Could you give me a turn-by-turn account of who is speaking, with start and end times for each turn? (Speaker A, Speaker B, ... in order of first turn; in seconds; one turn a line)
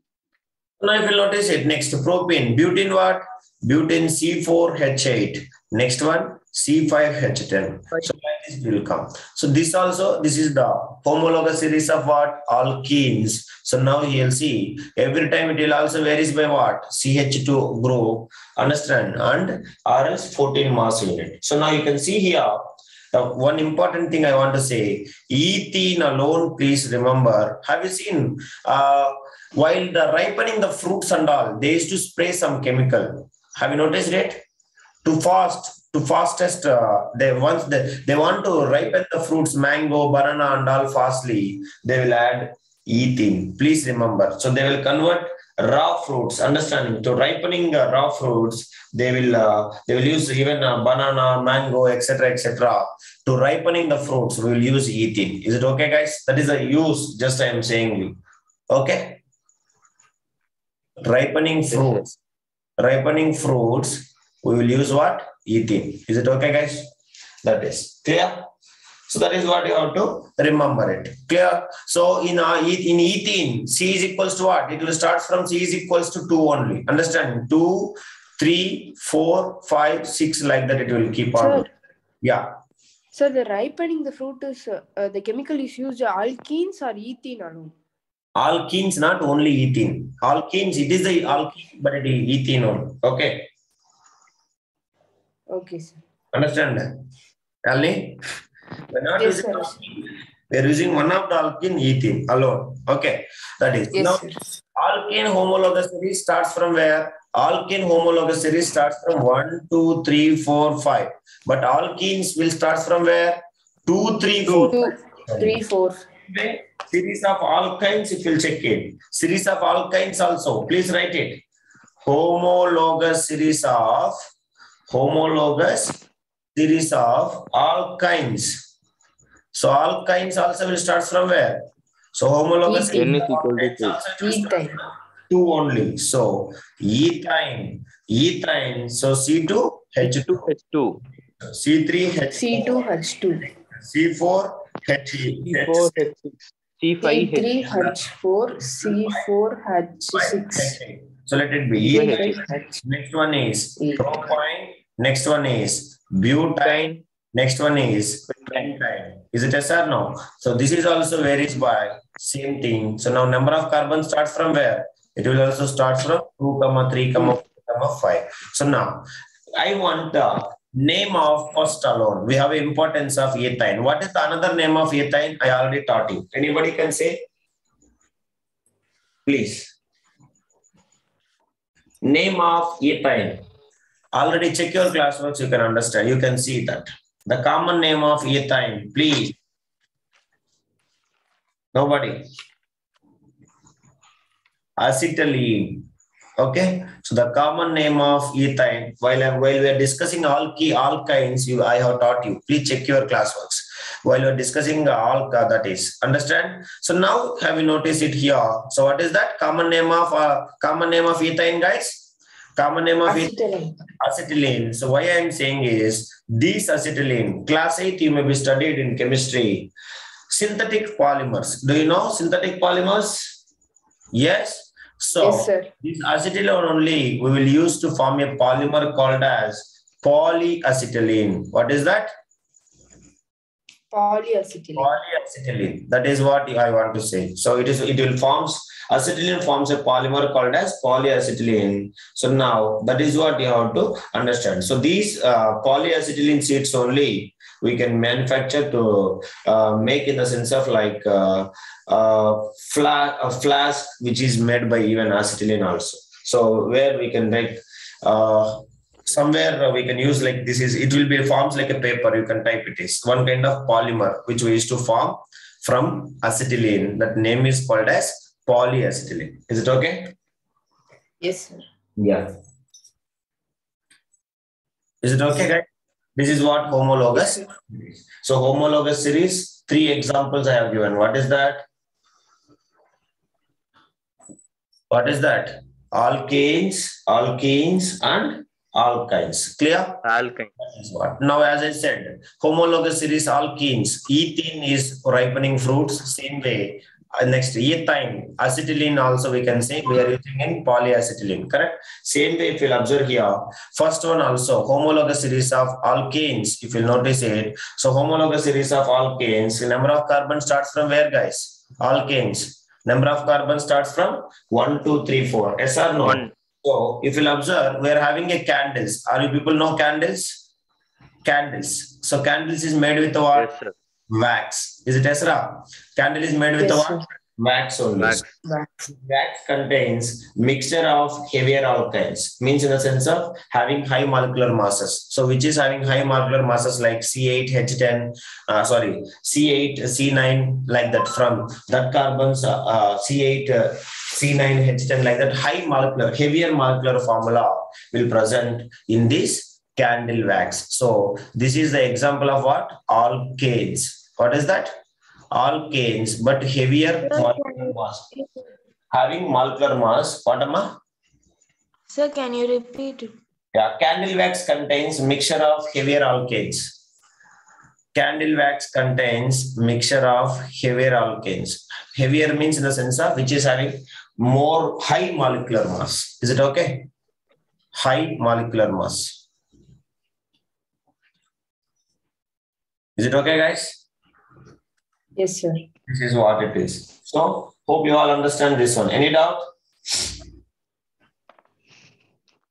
Speaker A: 0.8-34.4
Speaker A: 35.0-58.2
Speaker A: 58.7-59.2
Speaker A: 61.0-62.1
Speaker A: 62.8-66.9
Speaker A: 67.4-68.5
Speaker A: 69.1-81.7
Speaker B: 81.3-81.7
Speaker B: 83.1-87.7
Speaker A: 88.4-93.5
Speaker B: 95.5-96.0
Speaker A: 96.3-96.9
Speaker A: 97.7-98.2
Speaker A: 98.9-115.6
Speaker B: 99.2-99.7
Speaker B: 103.9-104.4
Speaker B: 114.5-116.0
Speaker A: 116.3-121.4
Speaker A: 122.0-124.2
Speaker A: 124.9-126.0
Speaker A: 126.5-128.6
Speaker A: 129.5-140.5
Speaker B: 132.6-133.2
Speaker C: 132.9-134.0
Speaker B: 134.2-134.8
Speaker C: 140.0-141.0
Speaker A: 141.4-142.8
Speaker B: 142.3-143.5
Speaker A: 143.7-145.9
Speaker C: 145.4-147.7
Speaker B: 147.0-150.8
Speaker A: 147.7-148.0
Speaker A: 148.6-149.2
Speaker A: 150.0-177.2
Speaker C: 151.9-152.7
Speaker B: 151.9-152.4
Speaker B: 153.8-154.1
Speaker C: 156.6-157.0
Speaker C: 158.4-158.7
Speaker A: 179.2-179.7
Speaker A: 182.0-183.4
Speaker A: 184.1-189.3
Speaker A: 191.7-192.3
Speaker A: 194.8-195.9
Speaker A: 196.4-213.3
Speaker B: 213.1-213.8
Speaker A: 214.0-219.7
Speaker A: 220.3-223.4
Speaker A: 224.1-232.1
Speaker B: 225.2-225.7
Speaker B: 233.9-234.9
Speaker A: 234.8-270.1
Speaker B: 271.2-271.6
Speaker A: 272.0-272.3
Speaker A: 275.0-281.6
Speaker A: 284.9-290.0
Speaker C: 290.0-290.5
Speaker A: 290.6-320.4
Speaker C: 316.0-316.3
Speaker A: 321.2-323.5
Speaker C: 323.3-323.7
Speaker A: 324.1-328.2
Speaker B: 326.6-327.0
Speaker C: 328.0-328.2
Speaker A: 328.9-354.8
Speaker A: 355.3-358.1
Speaker D: 357.1-358.3
Speaker A: 358.9-360.7
Speaker D: 361.9-363.1
Speaker A: 363.5-366.7
Speaker A: 367.9-376.9
Speaker A: 377.7-379.2
Speaker A: 383.0-383.8
Speaker B: 385.2-385.6
Speaker A: 385.9-390.1